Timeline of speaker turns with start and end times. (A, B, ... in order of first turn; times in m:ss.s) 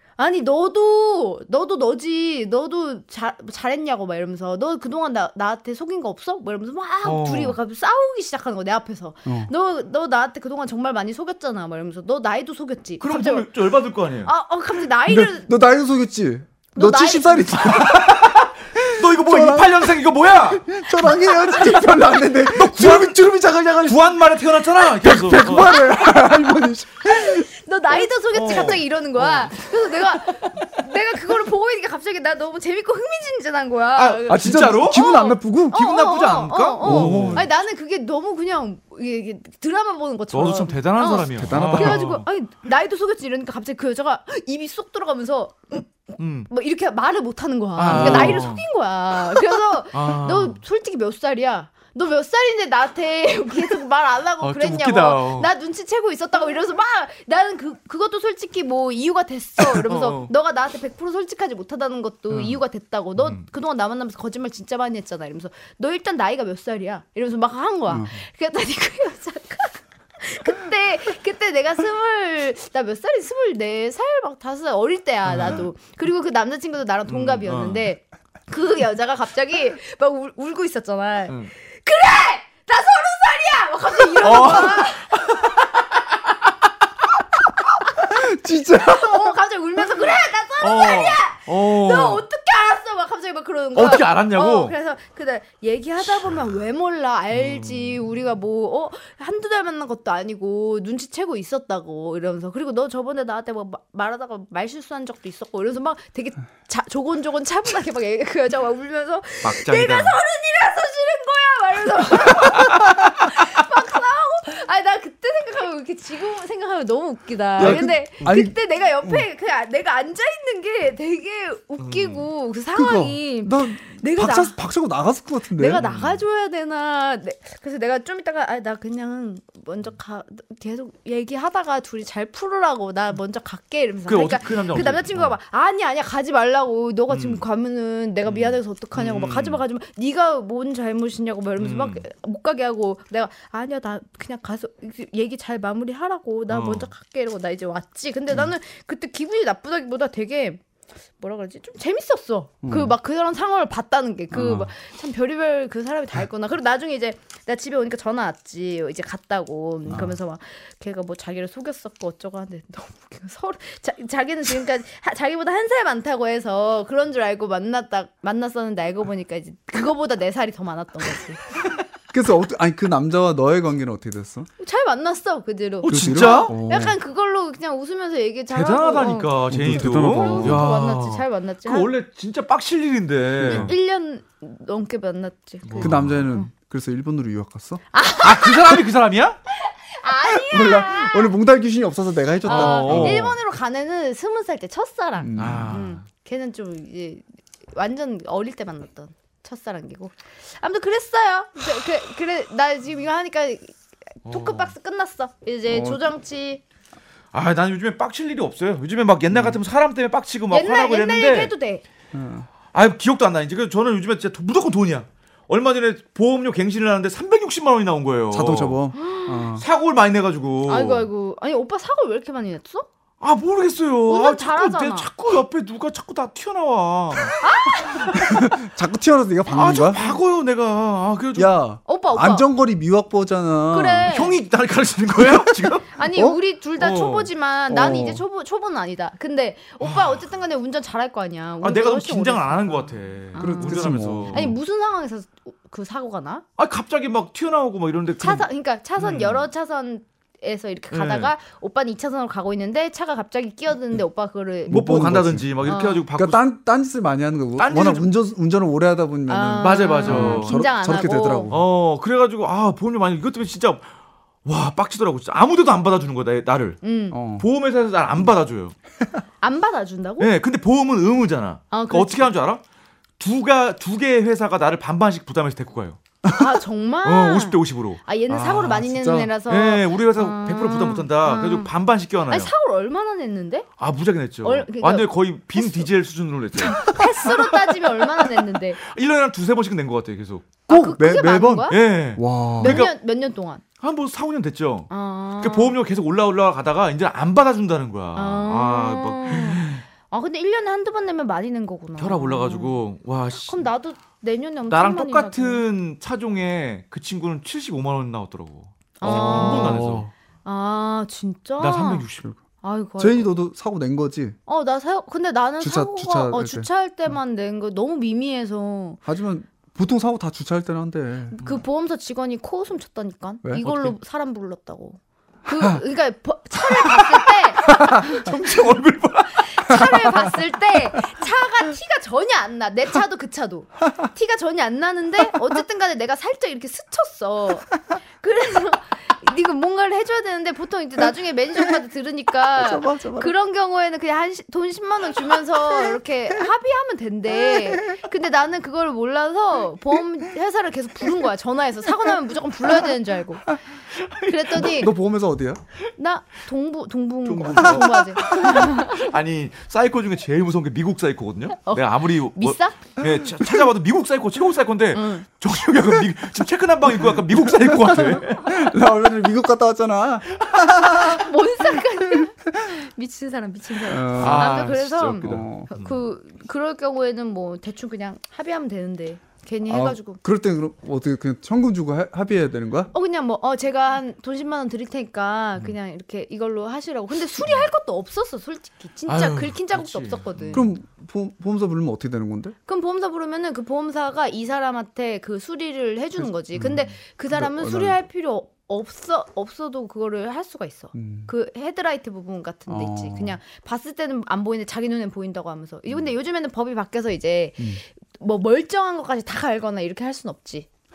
0:00.2-0:13.5 A
0:07.0-0:07.6 B
0:09.2-0:09.5 C
0:13.0-0:14.3 B
0:14.2-0:15.5 A
0:15.0-0:27.5 C
0:16.7-0:17.8 A
0:17.6-0:20.8 B
0:21.3-0:22.0 A
0:22.3-0:23.2 B
0:23.8-0:25.8 B
0:25.5-0:26.4 A
0:27.0-1:25.4 A
0:28.3-0:29.5 B
0:33.9-0:35.1 B
0:34.3-0:35.8 C
0:35.7-0:37.5 B
0:36.8-0:37.5 C
0:40.3-0:42.2 B
0:41.3-0:42.1 C
0:46.2-0:46.5 B
0:47.8-0:48.6 B
0:47.9-0:48.4 C
0:49.9-0:50.6 B
0:54.4-0:55.5 B
0:59.9-1:00.3 B
1:02.3-1:02.6 B
1:03.2-1:03.4 B
1:15.3-1:15.6 B
1:17.1-1:17.9 B
1:24.2-1:25.5 B
1:28.0-1:29.3 C
1:28.8-2:04.6 A
1:30.6-1:32.2 B
1:33.7-1:34.7 B
1:37.3-1:37.9 B
1:49.4-1:50.2 B
1:57.6-1:59.2 C
1:57.6-1:58.4 B
2:01.8-2:02.3 B
2:02.7-2:05.8 C
2:05.6-2:30.6 A
2:05.8-2:06.2 B
2:14.1-2:15.3 B
2:17.1-2:17.4 B
2:18.2-2:19.6 B
2:21.6-2:22.0 B
2:26.5-2:26.9 B
2:31.2-2:51.4 A
2:32.6-2:33.0 C
2:34.3-2:34.7 C
2:52.1-2:54.5 C
2:54.6-3:01.9 A
2:55.8-2:56.5 B
2:55.8-2:57.0 C
2:58.5-3:03.7 B
2:59.5-3:00.6 C
3:03.4-3:03.7 C
3:03.4-3:06.5 A
3:05.6-3:06.2 B
3:05.8-3:07.8 C
3:07.9-3:08.8 A
3:08.2-3:09.4 B
3:09.6-3:11.3 A
3:10.3-3:13.3 C
3:12.4-3:13.3 B
3:12.4-3:26.6 A
3:15.2-3:15.8 C
3:15.4-3:16.0 B
3:24.2-3:24.7 B
3:25.7-3:26.0 C
3:27.3-3:31.5 B
3:29.3-3:29.6 C
3:30.5-3:31.8 A
3:32.1-3:32.5 C
3:32.7-3:38.8 B
3:38.3-3:39.6 C
3:38.9-3:39.6 A
3:39.6-3:41.1 B
3:40.7-3:42.9 A
3:43.2-3:48.2 B
3:44.1-3:45.1 A
3:47.4-3:48.2 A
3:48.2-3:50.1 C
3:49.5-3:51.5 B
3:51.3-3:54.1 C
3:51.8-3:52.5 A
3:53.7-3:54.4 A
3:54.1-3:55.9 B
3:55.9-4:06.4 A
3:56.8-3:57.3 B
3:57.7-3:58.2 C
3:59.8-4:00.2 B
4:01.6-4:04.6 B
4:03.4-4:04.5 C
4:06.6-4:08.5 B
4:08.2-4:15.0 A
4:09.0-4:09.4 B
4:10.9-4:11.3 B
4:14.7-4:21.6 C
4:14.7-4:16.4 B
4:15.6-4:16.0 A
4:17.6-4:18.1 B
4:19.3-4:21.5 A
4:19.6-4:20.6 B
4:21.5-4:23.9 B
4:24.4-4:26.8 B
4:26.8-4:27.2 A
4:27.1-4:27.5 C
4:27.4-4:28.7 B
4:29.4-4:30.3 A
4:30.2-4:32.6 B
4:31.7-4:32.3 A
4:33.2-4:36.0 B
4:36.3-4:41.7 A
4:37.0-4:38.6 B
4:38.3-4:39.3 C
4:39.5-4:42.5 B
4:42.3-4:43.7 A
4:43.8-4:47.4 B
4:44.4-4:45.9 A
4:46.6-4:48.8 A
4:48.8-4:50.6 B
4:50.7-4:51.8 A
4:50.7-4:52.8 C
4:51.7-4:52.9 B
4:52.6-4:53.6 A
4:53.8-4:59.8 B
4:54.9-4:55.7 A
4:58.1-5:02.8 A
5:02.0-5:03.6 B
5:03.4-5:05.6 A
5:04.7-5:10.0 B
5:09.0-5:09.8 A
5:09.0-5:10.1 C
5:10.4-5:12.0 A
5:11.6-5:12.2 B
5:12.6-5:13.3 A
5:13.0-5:14.4 C
5:14.5-5:19.0 A
5:15.6-5:16.7 C
5:19.0-5:21.4 C
5:21.3-5:28.3 A
5:23.4-5:23.9 C
5:25.5-5:25.8 C
5:27.6-5:29.9 B
5:29.3-5:53.6 A
5:42.6-5:43.3 C
5:47.4-5:48.0 C
5:53.9-5:54.7 B
5:54.2-5:54.9 A
5:54.6-5:55.6 C
5:56.0-5:59.1 A
5:57.2-6:08.7 B
6:01.6-6:02.8 A
6:04.9-6:05.3 A
6:07.0-6:11.3 C
6:10.9-6:20.2 A
6:13.8-6:15.7 C
6:14.1-6:16.0 B
6:19.7-6:22.9 C
6:22.9-6:30.7 A
6:29.1-6:30.7 B
6:30.5-6:32.5 C
6:32.7-6:50.7 A
6:37.3-6:38.0 C
6:40.9-6:41.3 C
6:42.7-6:43.4 C